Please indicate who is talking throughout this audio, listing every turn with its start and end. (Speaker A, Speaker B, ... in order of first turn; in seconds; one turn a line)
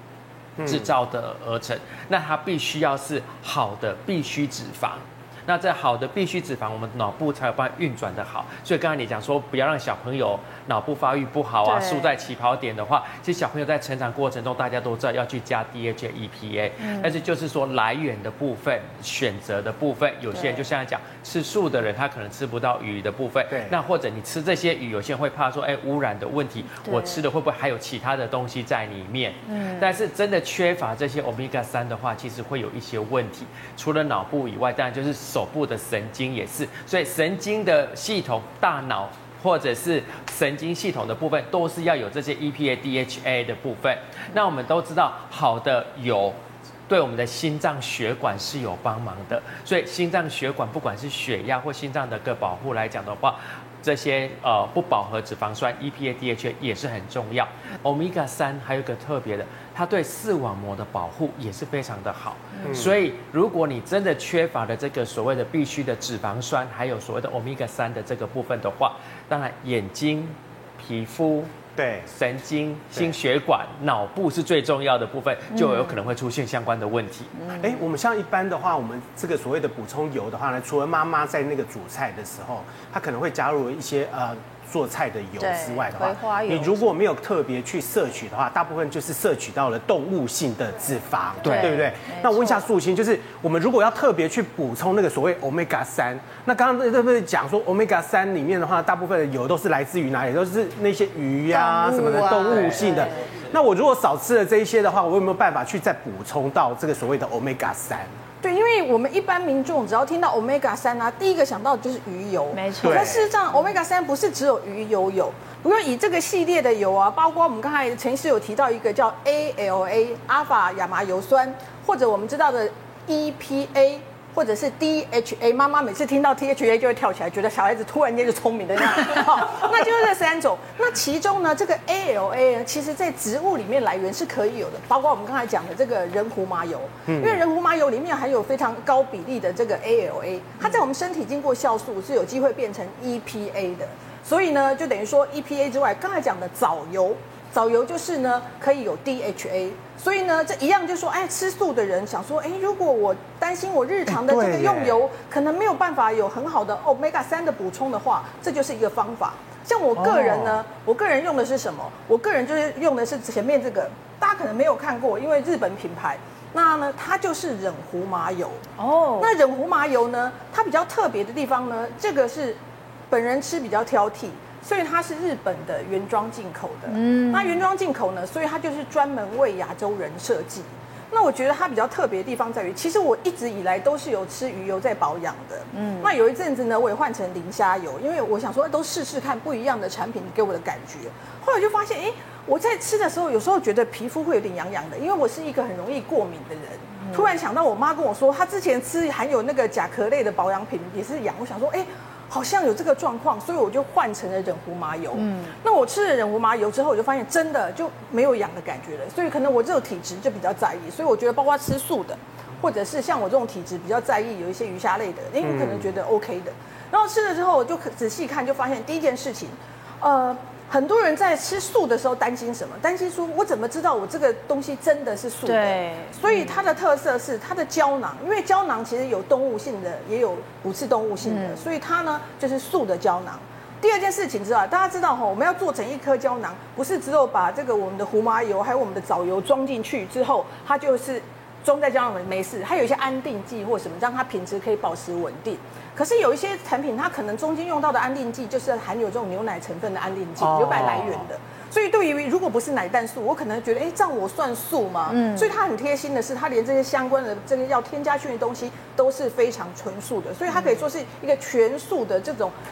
Speaker A: 0.6-0.9
Speaker B: 0.6-71.6
Speaker C: 11.6-12.1
Speaker C: 16.8-17.2
Speaker C: 20.3-20.6
Speaker A: 23.5-23.8
Speaker C: 26.8-27.2
Speaker C: 29.5-29.9
Speaker A: 62.6-63.0
Speaker A: 71.8-72.1
Speaker B: 72.1-77.4
Speaker C: 75.5-76.0
Speaker C: 77.4-77.8
Speaker A: 77.6-108.1
Speaker C: 85.4-86.9
Speaker C: 91.4-92.7
Speaker C: 101.5-103.1
Speaker B: 102.5-103.0
Speaker D: 108.4-168.6
Speaker C: 112.5-113.1
Speaker A: 112.8-113.3
Speaker A: 137.1-137.4
Speaker A: 154.1-155.0
Speaker A: 159.9-160.6
Speaker C: 168.8-169.3
Speaker D: 169.2-172.6
Speaker D: 173.1-262.5
Speaker C: 176.9-177.6
Speaker C: 185.7-186.1
Speaker C: 197.0-197.3
Speaker C: 205.1-205.5
Speaker A: 215.4-215.9
Speaker C: 225.4-226.5
Speaker C: 231.2-231.7
Speaker A: 250.4-251.2
Speaker C: 255.1-255.5
Speaker C: 260.5-260.8